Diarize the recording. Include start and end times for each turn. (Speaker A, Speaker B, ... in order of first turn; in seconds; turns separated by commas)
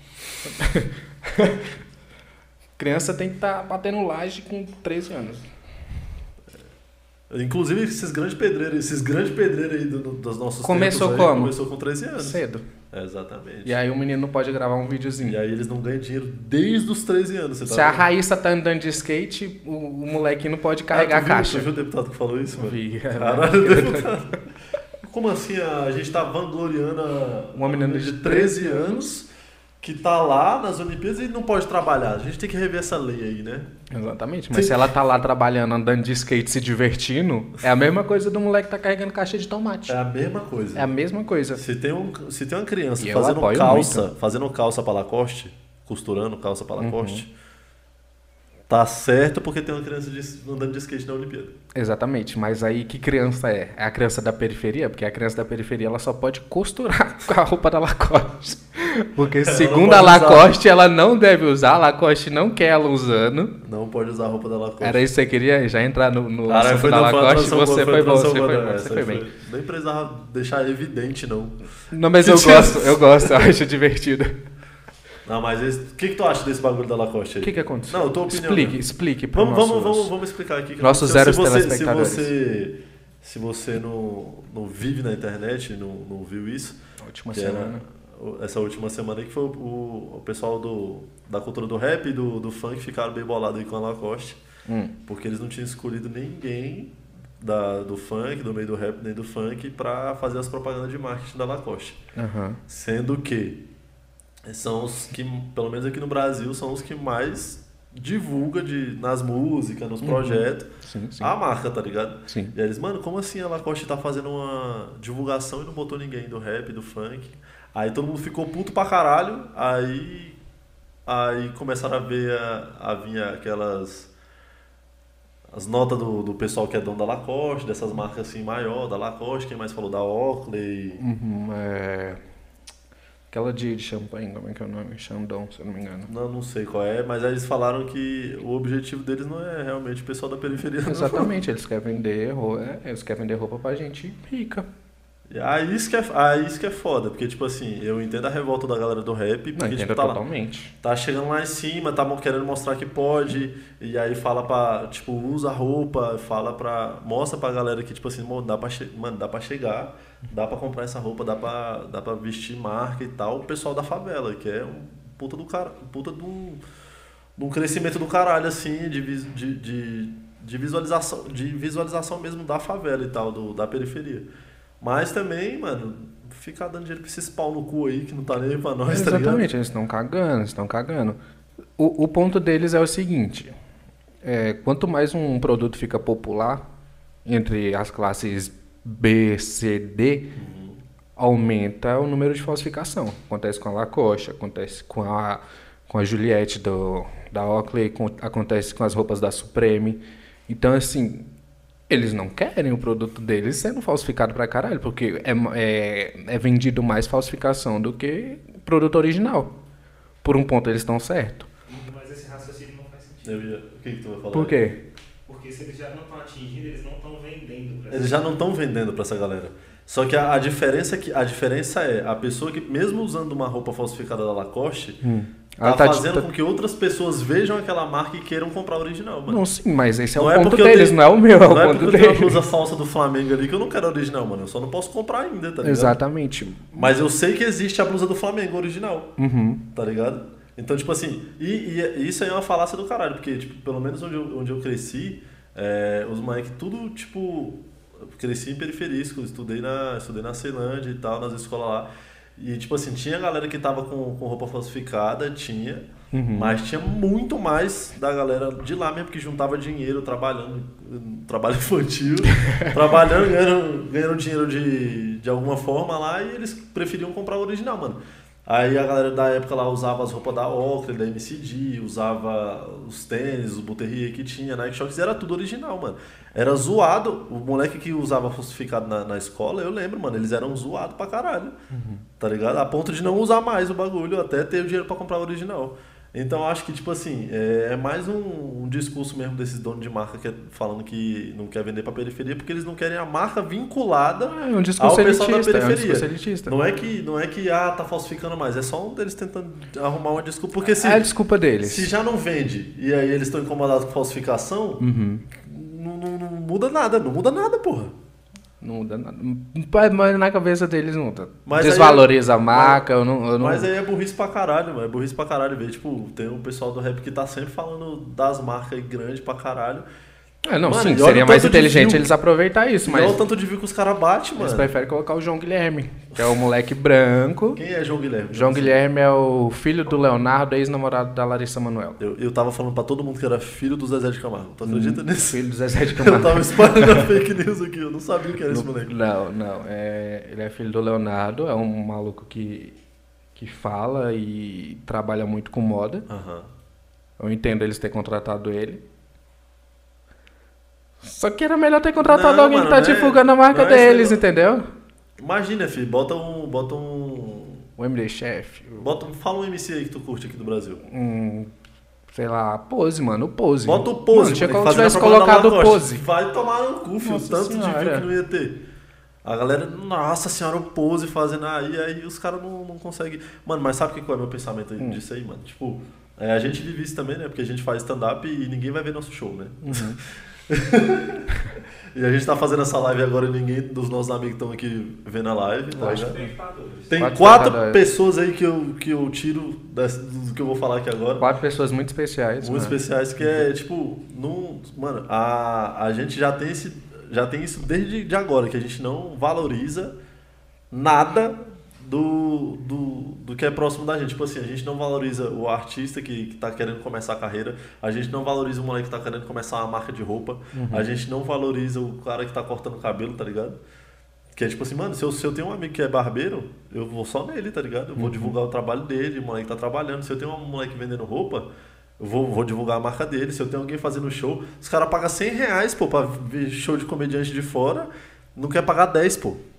Speaker A: 0.4-1.7, Speaker A: 2.8-5.5, Speaker B: 7.3-12.4, Speaker A: 10.6-11.6, Speaker A: 12.2-12.6, Speaker B: 12.9-13.8, Speaker A: 13.7-15.4, Speaker B: 15.2-18.1, Speaker A: 17.7-21.7, Speaker B: 20.9-24.4, Speaker A: 22.6-24.1, Speaker B: 25.0-29.3, Speaker A: 27.6-29.1, Speaker B: 29.8-33.7, Speaker A: 33.9-40.0, Speaker B: 34.5-34.9, Speaker B: 39.9-40.9, Speaker A: 40.8-41.6, Speaker B: 41.6-47.3, Speaker A: 43.0-44.1, Speaker A: 46.8-47.2, Speaker B: 48.7-51.5, Speaker A: 51.8-63.5, Speaker B: 59.4-60.5, Speaker B: 63.6-65.0, Speaker A: 64.8-69.3, Speaker B: 66.5-71.6, Speaker A: 71.9-74.4, Speaker B: 72.2-73.5, Speaker B: 75.2-78.8, Speaker A: 77.4-80.1, Speaker B: 79.3-86.8, Speaker A: 80.8-82.3, Speaker A: 87.0-87.8, Speaker B: 87.3-94.4, Speaker A: 94.7-95.0, Speaker B: 95.1-102.0, Speaker A: 102.2-102.6, Speaker B: 102.7-103.6, Speaker B: 104.5-120.4, Speaker A: 110.0-111.3, Speaker A: 112.3-112.5, Speaker B: 121.1-124.1, Speaker B: 125.5-131.0, Speaker A: 131.0-132.2, Speaker A: 133.3-136.1, Speaker B: 136.1-141.3, Speaker A: 140.8-144.7, Speaker B: 145.3-150.2, Speaker A: 149.6-150.7, Speaker B: 150.8-166.6, Speaker B: 167.4-174.3, Speaker B: 174.8-179.5, Speaker A: 178.9-181.2, Speaker A: 181.8-183.5, Speaker A: 184.2-186.6, Speaker A: 187.3-190.3, Speaker B: 190.3-190.8, Speaker A: 191.2-201.3, Speaker A: 201.9-209.5, Speaker A: 210.2-211.5, Speaker C: 211.7-213.5, Speaker B: 213.2-214.6, Speaker A: 214.3-214.8, Speaker C: 215.3-218.3, Speaker B: 217.9-225.0, Speaker A: 225.0-226.3, Speaker B: 225.6-229.4, Speaker A: 229.3-232.4, Speaker B: 230.2-236.0, Speaker A: 235.6-236.9, Speaker B: 236.7-239.1, Speaker A: 239.2-239.6, Speaker B: 239.7-281.6, Speaker A: 256.1-256.6, Speaker A: 262.2-262.8, Speaker A: 281.7-282.1, Speaker B: 282.2-301.1, Speaker A: 294.3-296.6, Speaker A: 300.7-301.9, Speaker B: 301.6-304.8, Speaker A: 304.8-305.3, Speaker B: 305.4-307.9, Speaker A: 308.6-313.7, Speaker B: 311.5-312.9, Speaker B: 313.4-319.9, Speaker A: 320.4-323.2, Speaker B: 320.6-322.1, Speaker B: 322.9-324.7, Speaker A: 324.4-327.6, Speaker B: 327.6-328.8, Speaker A: 328.3-332.0, Speaker B: 332.0-338.9, Speaker A: 334.6-337.1, Speaker A: 338.5-342.8, Speaker A: 343.4-346.1, Speaker B: 346.1-346.5, Speaker A: 347.2-348.8, Speaker A: 351.0-354.7, Speaker B: 352.0-354.2, Speaker B: 355.2-357.6, Speaker A: 357.8-358.9, Speaker B: 358.8-360.8, Speaker A: 360.9-361.5, Speaker A: 362.1-366.0, Speaker B: 363.6-368.6, Speaker A: 367.0-368.1, Speaker B: 369.2-380.0, Speaker A: 379.6-380.0, Speaker B: 380.5-381.3, Speaker B: 381.9-386.2, Speaker C: 385.8-387.0, Speaker A: 385.8-386.3, Speaker B: 386.9-391.2, Speaker A: 387.0-387.8, Speaker A: 391.2-393.5, Speaker B: 392.4-399.9, Speaker B: 400.7-413.6, Speaker A: 410.5-410.9, Speaker B: 414.3-421.5, Speaker A: 418.0-418.4, Speaker B: 422.0-429.4